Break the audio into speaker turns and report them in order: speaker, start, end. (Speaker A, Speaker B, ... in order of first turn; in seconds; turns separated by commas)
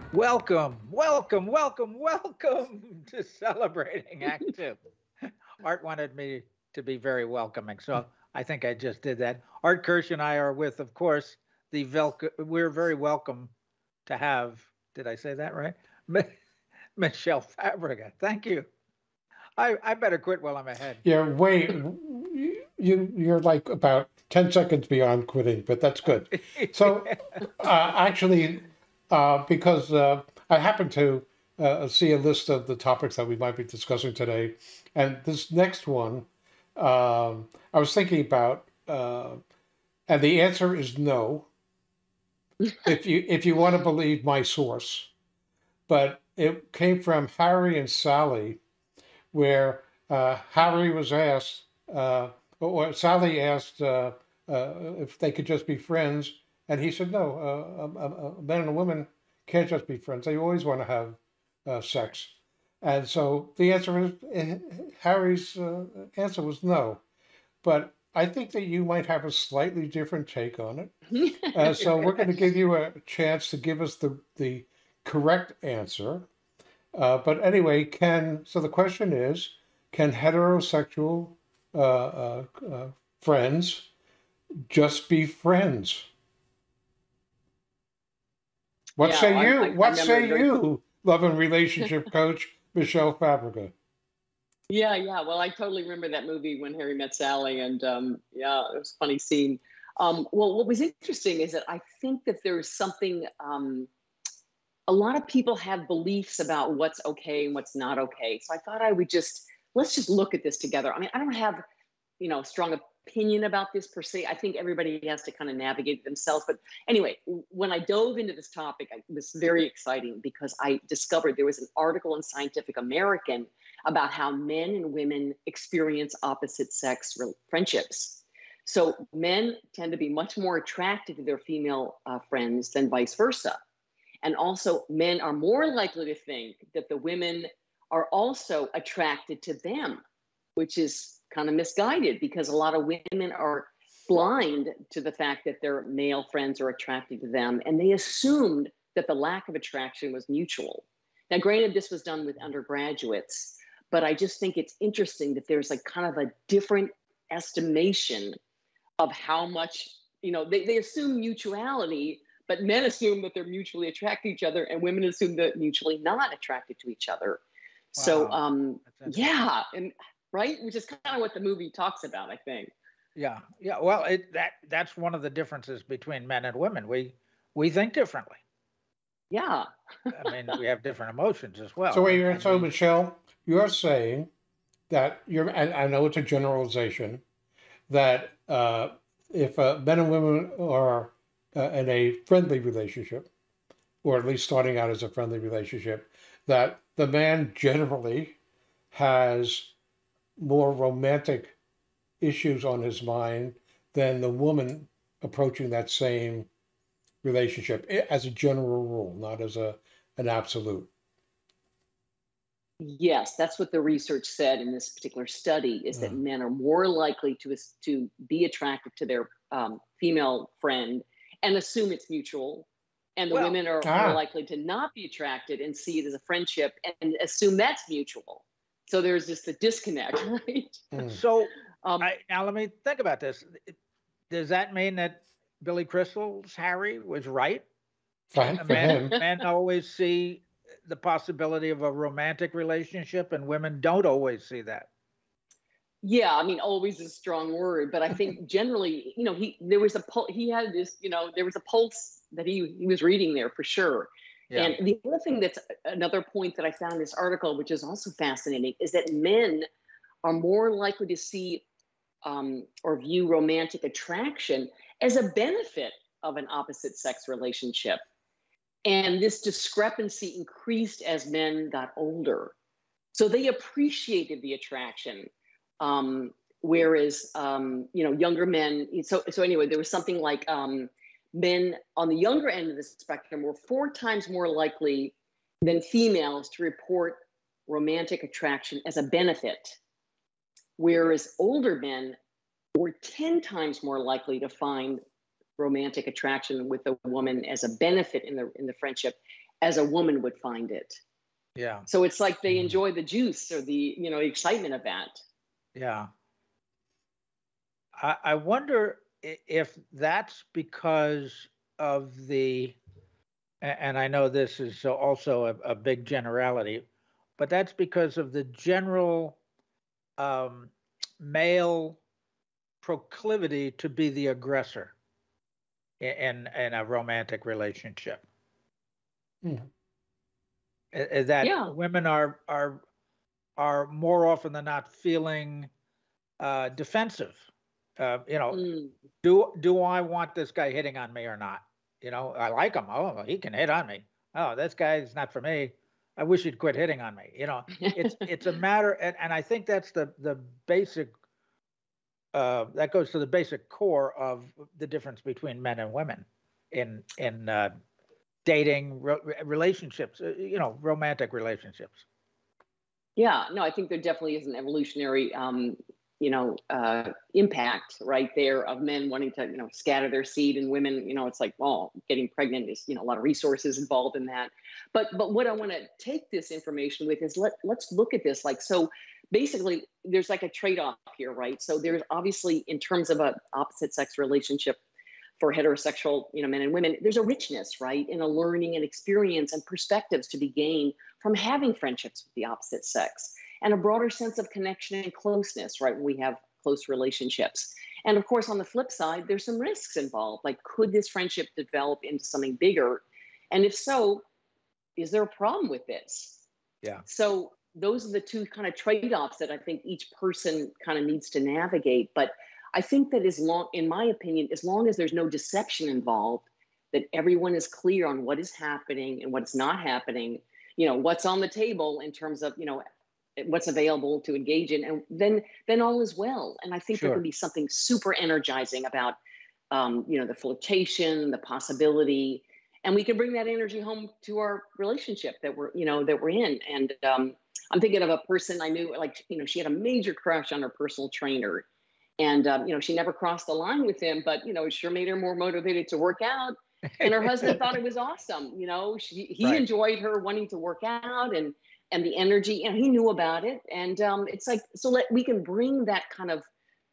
Speaker A: 0.1-4.8, Speaker A: 5.6-13.5, Speaker A: 14.1-16.3, Speaker A: 17.0-18.7, Speaker A: 19.6-21.0, Speaker B: 21.0-39.4, Speaker A: 26.3-27.5, Speaker B: 40.1-41.5, Speaker B: 42.8-45.1, Speaker B: 45.9-48.6, Speaker B: 49.3-67.0, Speaker B: 67.6-71.0, Speaker C: 71.1-72.3, Speaker B: 71.5-76.3, Speaker B: 76.9-83.9, Speaker B: 84.7-86.1, Speaker B: 89.0-93.7, Speaker C: 89.0-90.5, Speaker C: 94.7-103.9, Speaker C: 104.9-111.6, Speaker C: 112.2-133.6, Speaker C: 134.2-140.0, Speaker C: 140.6-158.3, Speaker C: 159.0-167.4, Speaker C: 167.9-172.7, Speaker A: 168.0-169.3, Speaker A: 173.2-178.4, Speaker C: 179.3-180.1, Speaker A: 180.1-182.7, Speaker B: 181.9-184.3, Speaker B: 184.9-187.2, Speaker B: 187.9-193.3, Speaker B: 194.0-198.4, Speaker B: 198.9-199.7, Speaker B: 200.4-201.6, Speaker B: 202.2-206.5, Speaker B: 207.2-210.9, Speaker C: 212.8-230.8, Speaker B: 215.9-216.2, Speaker A: 223.3-223.6, Speaker B: 223.8-224.2, Speaker B: 230.9-231.2, Speaker A: 230.9-233.7, Speaker C: 231.8-232.1, Speaker A: 234.3-237.7, Speaker B: 238.3-239.2, Speaker A: 238.4-244.9, Speaker C: 238.7-239.2, Speaker C: 246.0-259.6, Speaker A: 254.5-254.8, Speaker C: 260.2-261.6, Speaker C: 262.2-268.0, Speaker C: 268.9-272.5, Speaker C: 273.1-289.8, Speaker C: 290.8-292.1, Speaker C: 292.7-295.0, Speaker C: 295.6-301.0, Speaker A: 301.6-301.9, Speaker C: 301.9-305.2, Speaker A: 305.7-306.1, Speaker A: 308.0-312.8, Speaker A: 313.6-316.9, Speaker A: 317.4-319.4, Speaker A: 320.2-322.0, Speaker A: 322.8-324.9, Speaker A: 326.0-328.2, Speaker B: 329.4-329.7, Speaker A: 330.9-332.8, Speaker C: 331.4-331.7, Speaker A: 333.6-335.7, Speaker A: 336.4-337.5, Speaker A: 338.0-338.6, Speaker C: 338.5-338.9, Speaker A: 339.2-351.1, Speaker C: 347.9-348.1, Speaker A: 352.3-357.7, Speaker A: 358.4-362.0, Speaker C: 363.1-384.8, Speaker C: 385.4-404.2, Speaker C: 405.0-406.4, Speaker C: 407.1-422.8, Speaker C: 423.4-429.2, Speaker A: 426.9-427.2, Speaker C: 429.7-441.6, Speaker C: 442.2-456.5, Speaker A: 446.9-447.6